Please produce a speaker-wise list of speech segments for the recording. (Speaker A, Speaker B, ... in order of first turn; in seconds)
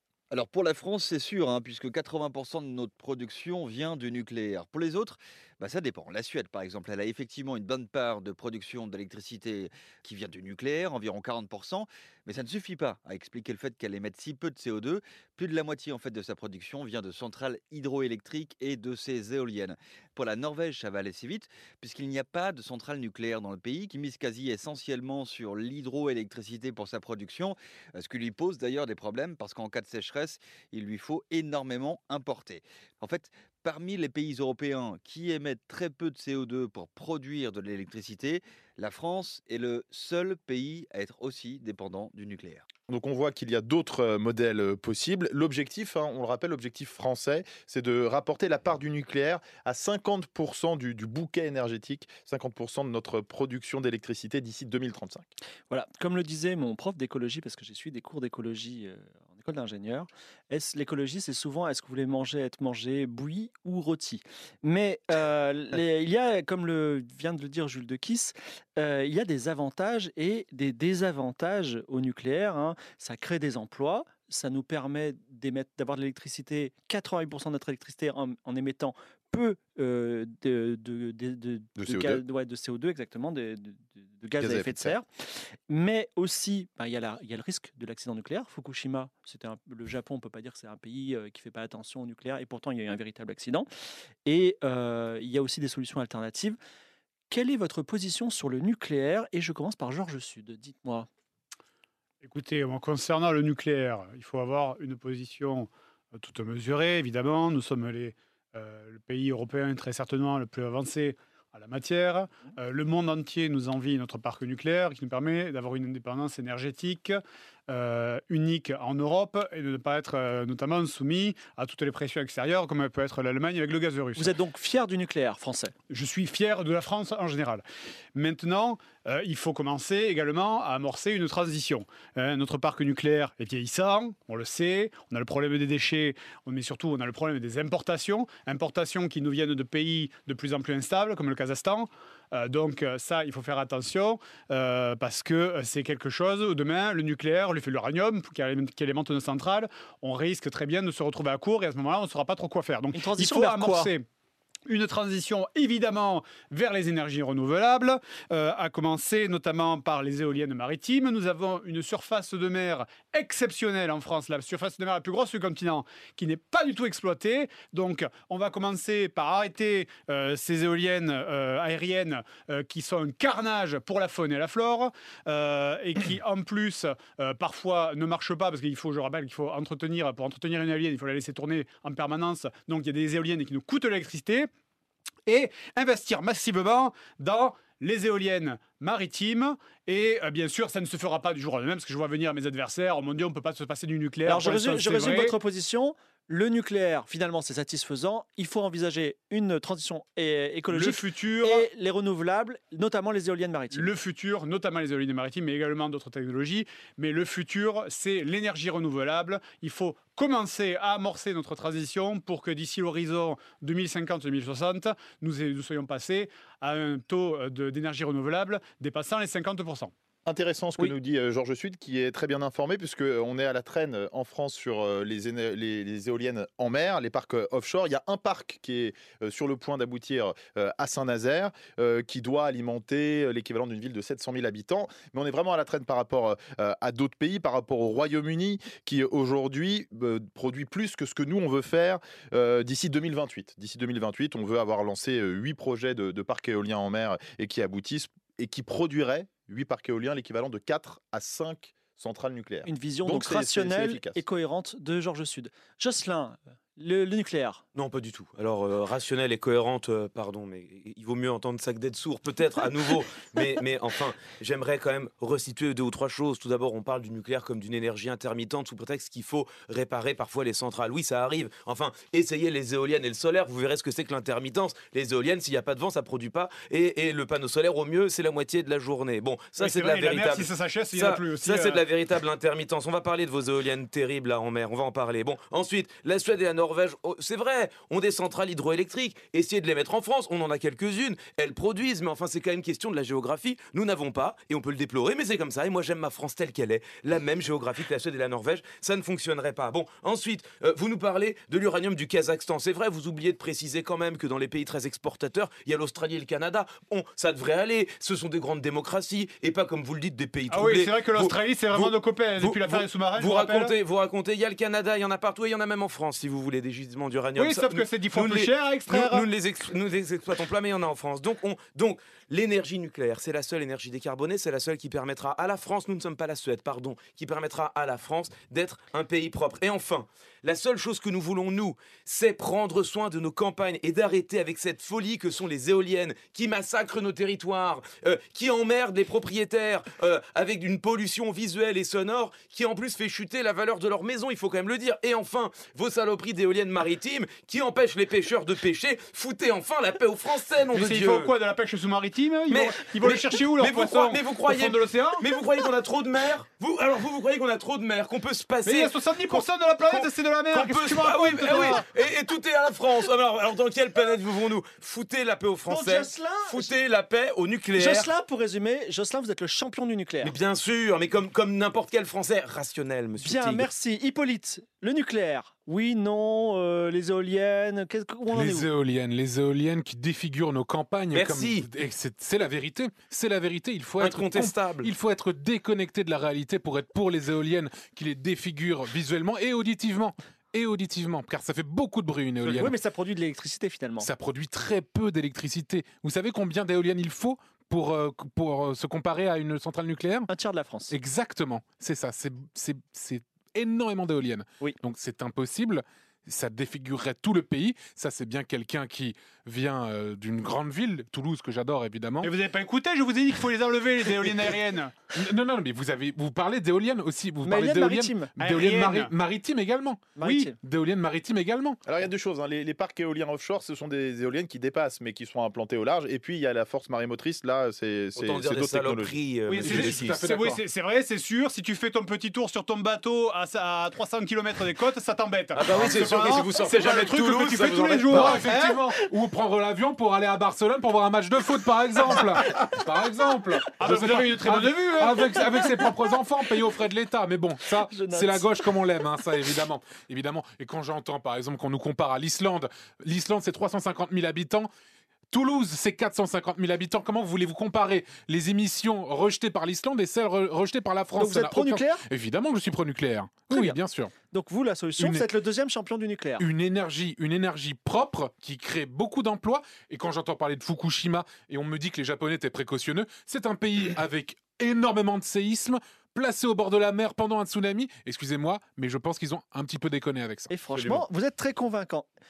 Speaker A: 0.3-42.6
Speaker B: 42.9-55.3, 81.8-82.2, 84.4-85.0, 220.3-254.2, 421.9-429.1
Speaker C: 55.7-93.7, 94.3-96.6, 97.3-101.1, 124.2-125.8, 152.9-153.9, 194.3-203.9, 252.7-257.6, 365.7-366.7, 367.8-370.3, 373.2-378.7, 392.4-394.1, 400.3-400.9, 417.4-418.3, 420.2-420.6, 447.9-448.5, 461.1-462.0, 463.5-463.8, 464.3-466.4, 480.5-482.1
Speaker D: 102.2-124.3, 125.9-127.6, 128.2-154.1, 154.7-184.5, 185.3-195.3, 200.7-201.7, 203.7-219.9, 279.6-281.8, 310.5-313.7, 317.4-319.3, 350.7-355.2, 358.6-361.9, 412.2-414.9, 418.4-419.1, 420.2-420.5, 429.5-438.9, 443.7-445.5
Speaker E: 257.8-351.3, 352.5-368.1, 370.2-373.7, 381.1-381.6, 384.0-384.9, 428.2-430.2, 435.6-438.5
Speaker F: 378.3-392.8, 394.0-400.3, 400.9-412.3, 415.1-421.8, 429.6-430.6, 438.1-454.7, 455.3-464.1, 465.0-465.2, 466.4-481.0